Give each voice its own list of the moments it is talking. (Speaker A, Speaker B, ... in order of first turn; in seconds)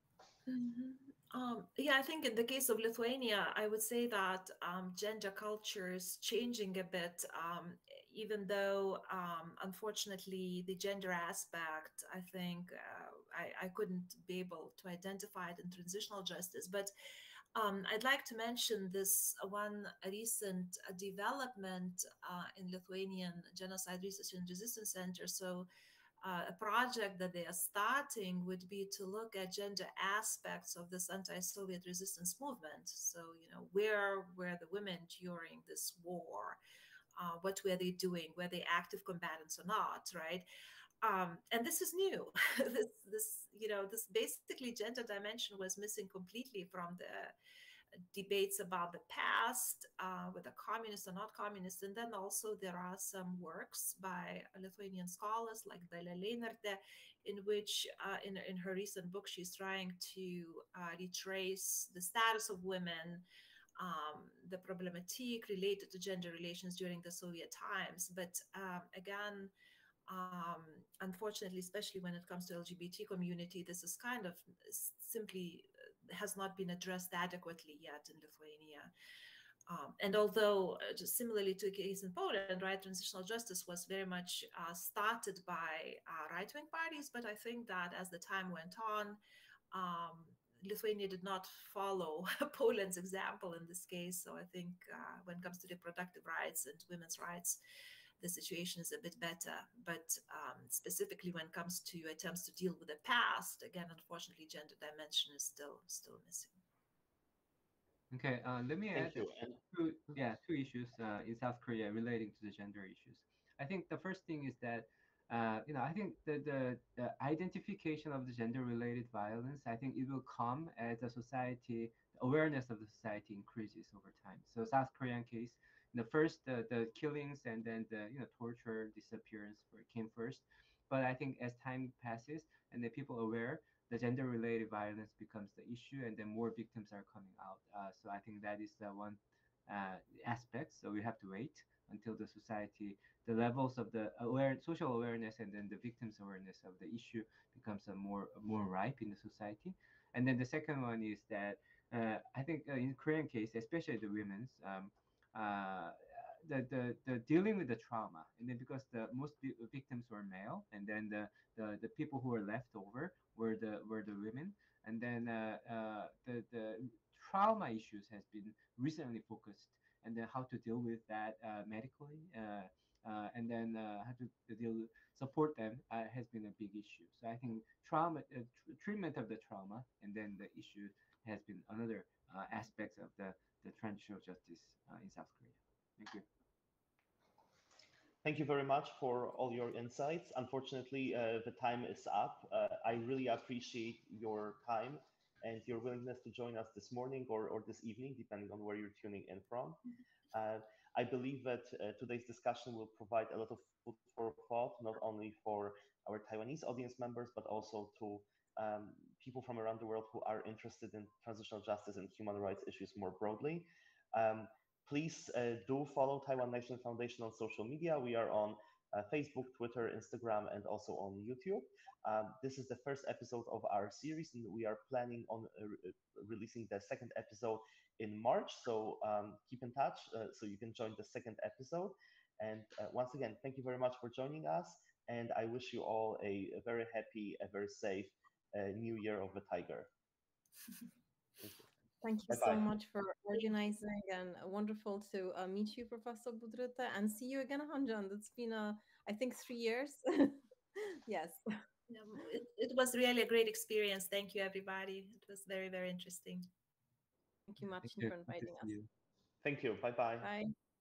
Speaker A: 0.5-16.9, 17.5-25.7, 26.2-36.6, 37.1-40.5, 41.0-47.3, 48.1-63.2, 63.8-69.5, 70.1-78.9, 79.7-89.2, 89.7-97.6, 98.2-106.5, 251.9-256.5
Speaker B: 108.1-186.2, 257.8-258.9
Speaker C: 108.9-109.6, 188.2-199.8, 200.3-239.9, 241.4-241.7, 242.3-242.7, 259.4-260.3
Speaker D: 242.0-251.4, 257.5-258.8, 260.2-260.5